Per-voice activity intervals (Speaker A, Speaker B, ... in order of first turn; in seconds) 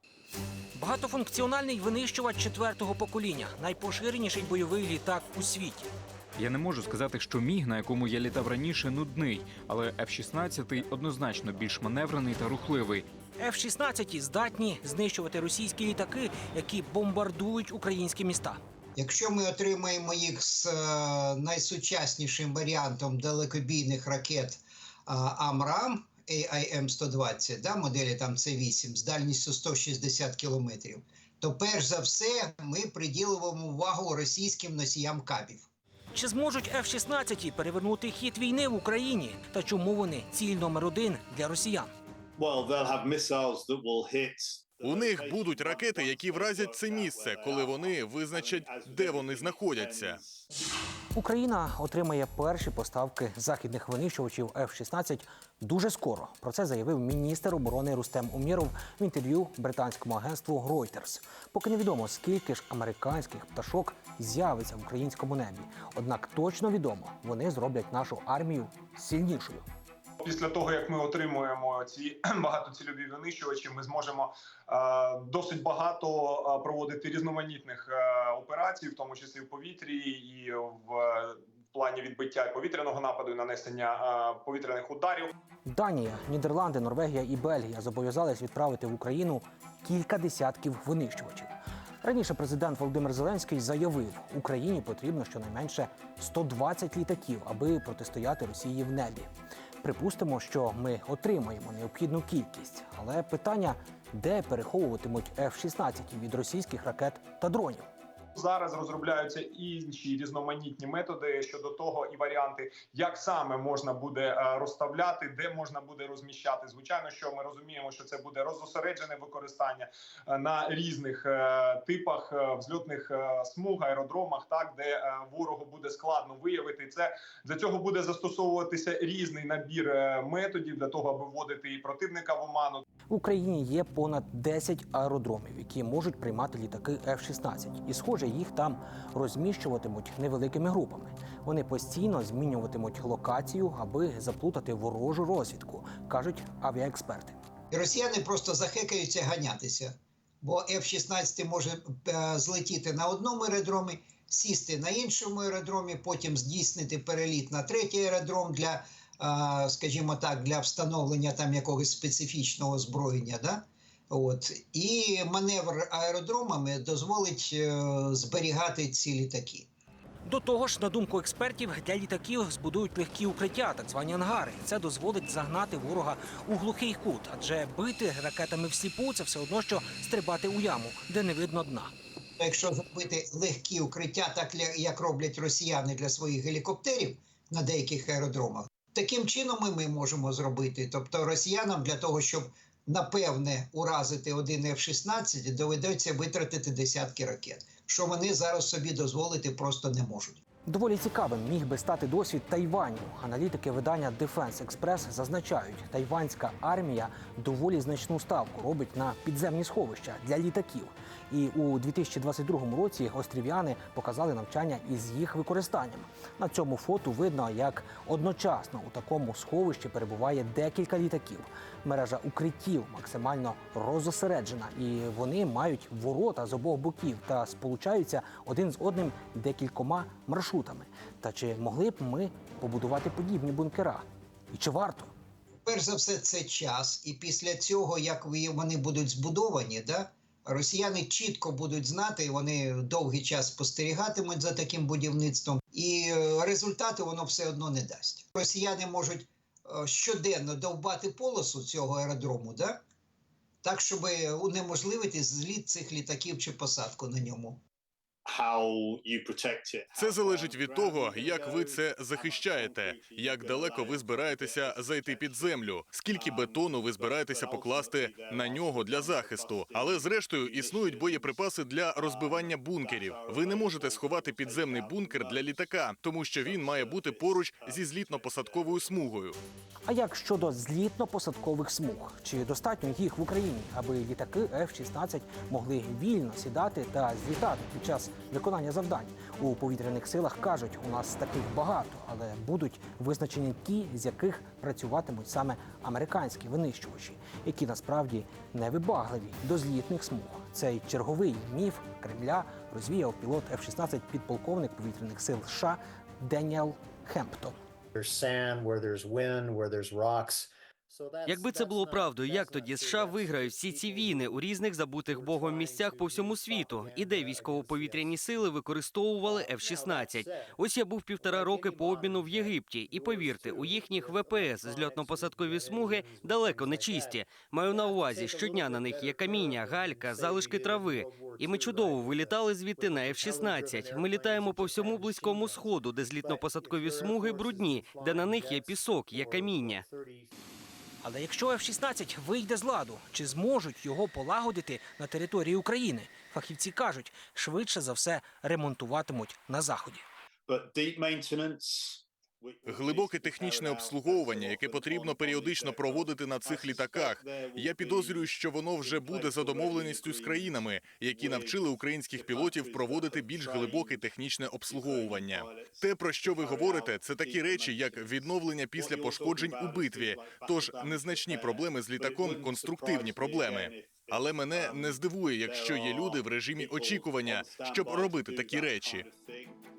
Speaker A: 0.8-5.9, 13.4-18.6, 36.1-41.9, 51.1-69.6, 85.7-99.3, 99.8-107.8, 133.1-147.4, 170.2-181.9, 200.7-235.1, 279.9-307.6, 341.0-350.0
Speaker B: 6.4-13.1
Speaker C: 18.9-35.7, 147.7-169.7, 182.4-200.4, 235.6-252.8, 253.6-257.6
Speaker D: 42.4-50.5, 258.3-279.1, 350.5-364.1, 364.6-379.6
Speaker E: 44.8-50.2, 259.9-279.4, 352.6-379.1
Speaker F: 70.2-85.3, 108.3-132.8
Speaker G: 307.9-314.3, 315.1-318.4, 319.2-320.6, 321.2-340.4
Speaker H: 311.2-339.8